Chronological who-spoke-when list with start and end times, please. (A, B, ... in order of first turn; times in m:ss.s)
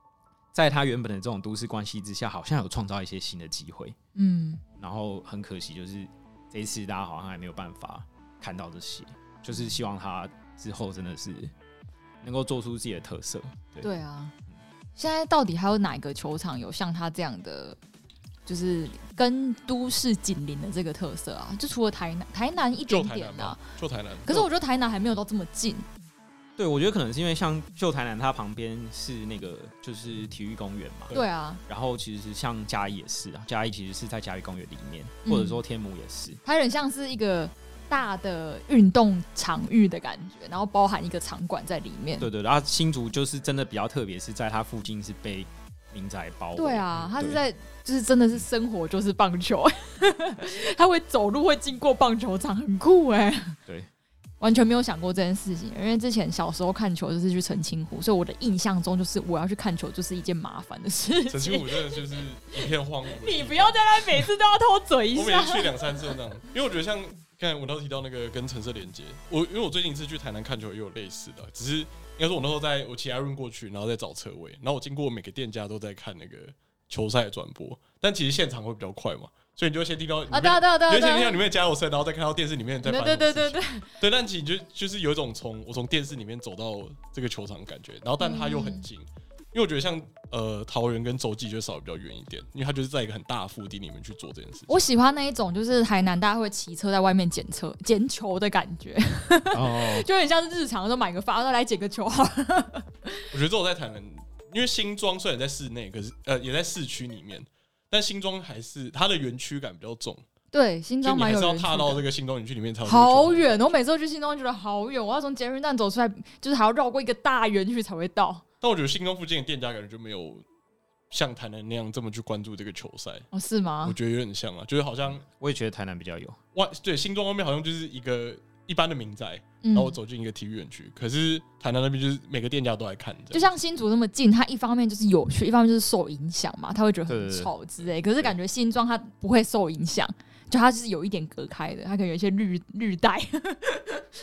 0:00.5-0:04.0 A
0:04.1-0:04.6 B
0:04.8-0:11.5 A
0:12.2-0:13.9 A
0:13.8-0:14.3 B
0:15.0-0:17.8 B
0:18.4-0:23.6 B
0:22.9-0:24.5 C
0:24.3-0:25.9 B
0:26.6-0:31.1 A
0:31.1-0:31.6 B
0:31.7-0:36.4 A
0:35.2-0:35.6 B
0:36.4-0:42.3 B
0:42.2-0:47.4 A
0:46.6-0:53.6 B
0:54.4-1:02.0 B
1:01.3-1:04.3 C
1:03.1-1:06.1 B
1:05.1-1:34.7 C
1:20.3-1:21.4 B
1:22.8-1:23.9 B
1:28.2-1:28.8 B
1:34.7-1:43.2 B
1:39.5-1:40.1 A
1:43.3-1:50.2 C
1:50.5-1:52.0 B
1:51.0-1:53.6 C
1:52.9-1:58.4 B
1:58.6-2:00.4 C
2:01.1-2:03.3 C
2:03.3-2:04.0 B
2:03.8-2:05.2 C
2:05.3-2:06.4 A
2:06.6-2:13.5 C
2:09.6-2:10.0 B
2:13.3-2:24.0 B
2:17.1-2:17.5 A